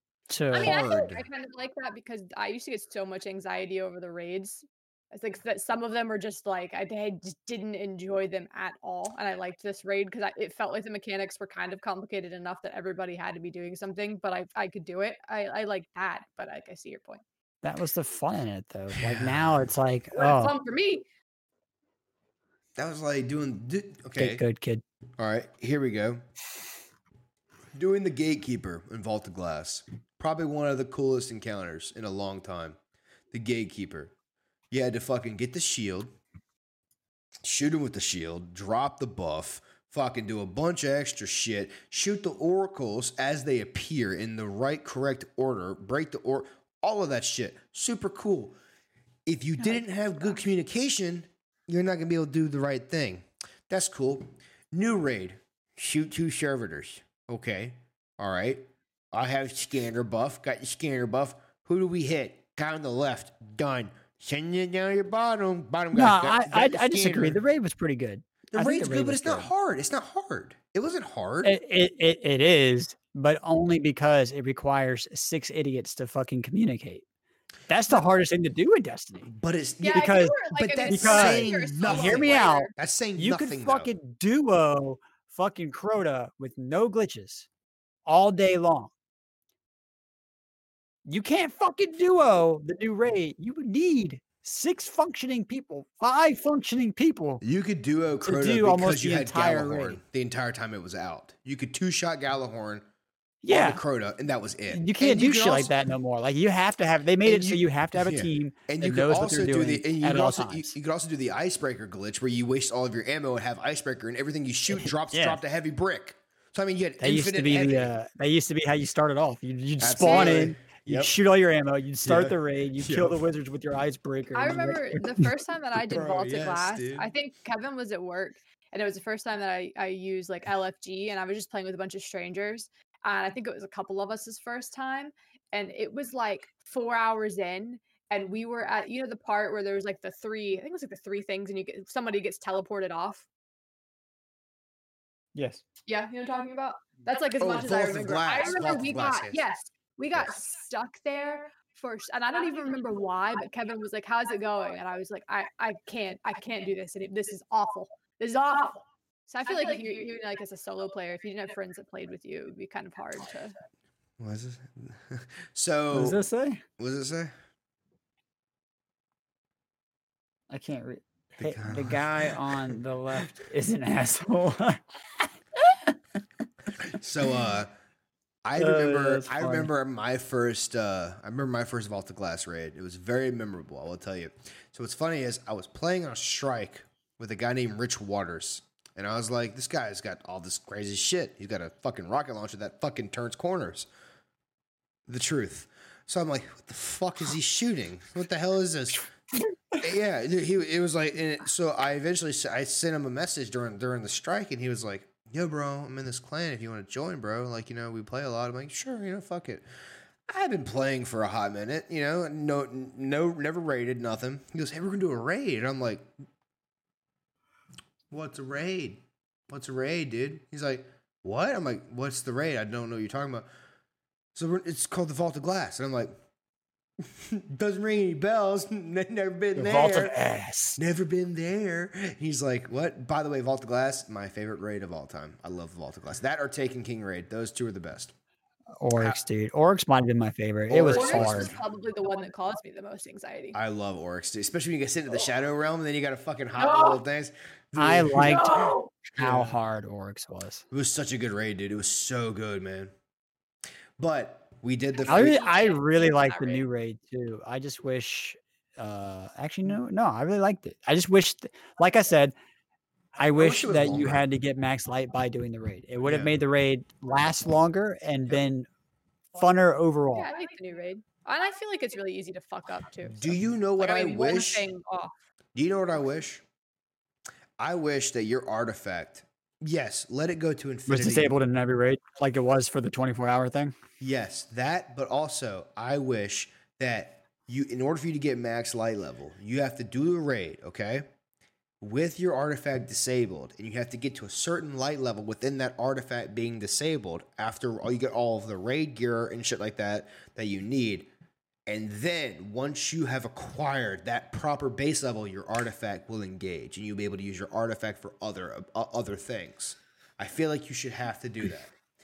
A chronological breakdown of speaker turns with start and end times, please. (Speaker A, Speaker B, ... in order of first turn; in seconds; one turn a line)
Speaker A: 0.3-0.7
Speaker B: 0.5-1.2
Speaker C: 0.5-17.2
Speaker A: 17.6-20.6
Speaker B: 18.9-19.6
Speaker C: 20.1-21.1
Speaker B: 22.8-24.4
Speaker A: 24.1-24.8
Speaker B: 25.2-26.2
Speaker B: 27.8-32.8
Speaker B: 33.3-34.1
Speaker B: 34.7-36.1
Speaker B: 37.4-48.5
Speaker B: 49.2-67.4
Speaker A: 65.9-69.5
Speaker B: 68.5-71.5
Speaker A: 71.4-77.0
Speaker A: 77.7-79.3
Speaker B: 79.2-83.9
Speaker C: 79.8-82.7
Speaker A: 79.9-80.3
Speaker A: 80.9-87.5
Speaker A: 88.0-88.9
Speaker A: 91.0-97.4
Speaker B: 97.4-102.8
Speaker A: 98.2-100.0
Speaker A: 103.4-103.8
Speaker B: 103.5-105.7
Speaker A: 104.7-110.8
Speaker B: 107.2-117.9
Speaker A: 114.7-115.4
Speaker A: 117.0-125.3
Speaker B: 119.8-121.1
Speaker C: 120.0-120.5
Speaker B: 122.0-123.2
Speaker C: 124.3-143.2
Speaker B: 125.9-127.1
Speaker A: 145.3-145.6
Speaker C: 145.8-163.5
Speaker B: 147.4-149.4
Speaker B: 164.2-166.2
Speaker A: 165.9-166.6
Speaker B: 166.8-167.3
Speaker A: 170.5-175.9
Speaker B: 171.4-172.8
Speaker B: 176.8-177.7
Speaker B: 178.4-193.9
Speaker A: 178.6-179.7
Speaker B: 195.1-199.1
Speaker B: 199.8-209.6
Speaker B: 210.3-216.1
Speaker B: 218.1-223.5
Speaker B: 224.3-226.2
Speaker B: 227.2-230.1
Speaker A: 229.6-230.8
Speaker B: 230.8-238.1
Speaker A: 238.8-241.5
Speaker B: 238.9-239.2
Speaker B: 240.7-241.6
Speaker C: 240.8-243.6
Speaker B: 243.5-248.6
Speaker C: 246.6-246.9
Speaker A: 247.8-250.6
Speaker C: 248.2-248.9
Speaker B: 249.1-249.6
Speaker B: 250.7-252.9
Speaker B: 254.0-255.6
Speaker A: 255.1-262.3
Speaker C: 255.1-255.8
Speaker C: 256.3-256.6
Speaker A: 263.2-268.7
Speaker B: 263.4-264.2
Speaker B: 266.0-266.4
Speaker A: 269.3-270.3
Speaker C: 270.1-275.1
Speaker B: 273.1-274.7
Speaker B: 275.5-276.4
Speaker B: 277.6-281.4
Speaker A: 280.9-283.7
Speaker B: 284.0-291.0
Speaker B: 291.8-301.1
Speaker B: 301.7-311.7